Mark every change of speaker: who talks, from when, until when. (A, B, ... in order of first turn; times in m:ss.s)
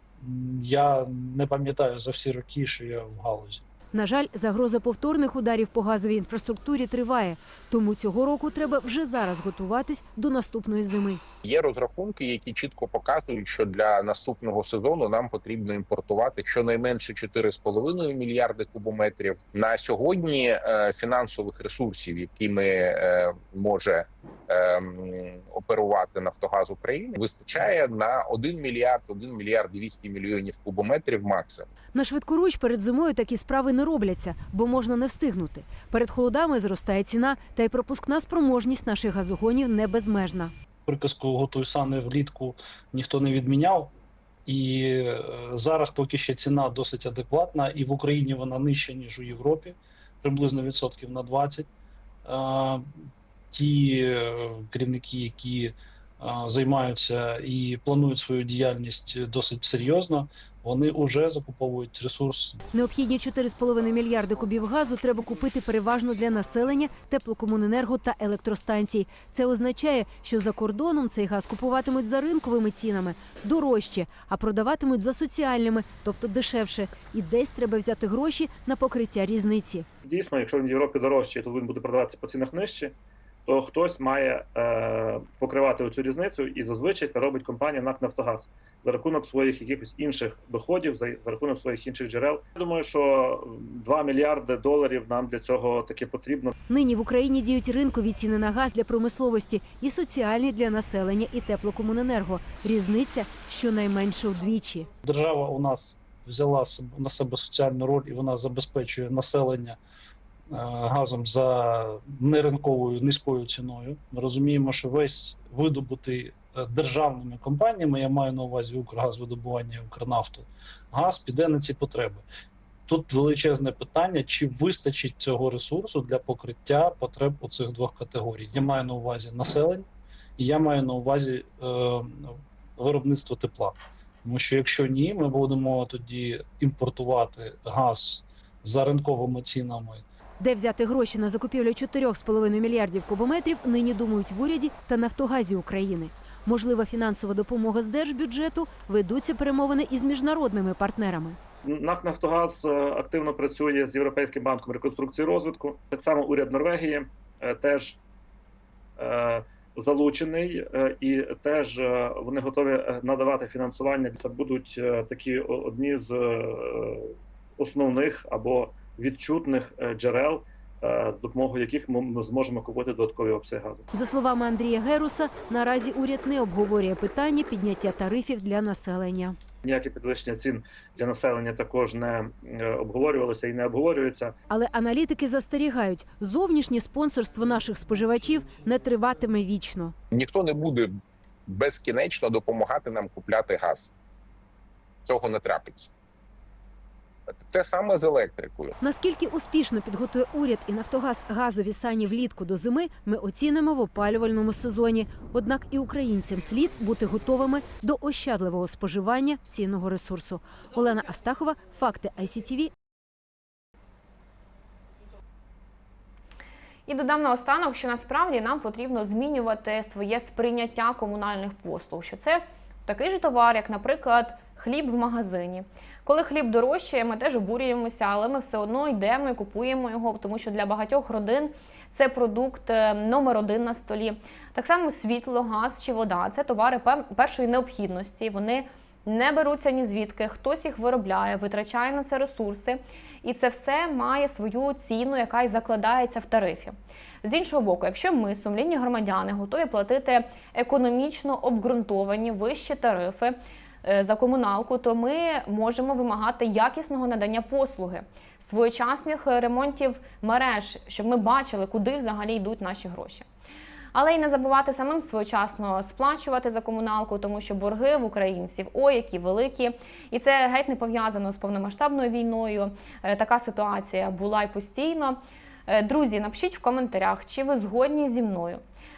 0:00.2-0:03.6 A
0:03.9-0:11.2 B
0:11.4-0:31.7 C
0:31.9-0:40.5 B
0:40.8-0:43.9 A
0:44.4-0:51.7 A
0:52.2-0:52.8 A
0:53.5-1:02.6 A
1:02.7-1:19.8 B
1:20.0-1:22.9 D
1:23.5-1:36.5 D
1:36.7-1:44.9 B
1:45.0-1:49.8 A
1:50.5-2:02.2 A
2:02.9-2:20.0 A
2:20.4-2:31.4 B
2:31.6-2:38.0 D
2:39.0-2:53.8 D
2:53.9-2:59.4 B
2:59.6-3:04.3 D
3:04.5-3:09.9 B
3:10.1-3:10.9 C
3:11.5-3:13.9 C
3:15.0-3:15.9 C
3:17.3-3:18.7 C
3:18.8-3:32.7 B
3:36.9-4:23.2 E
4:23.9-4:38.6 E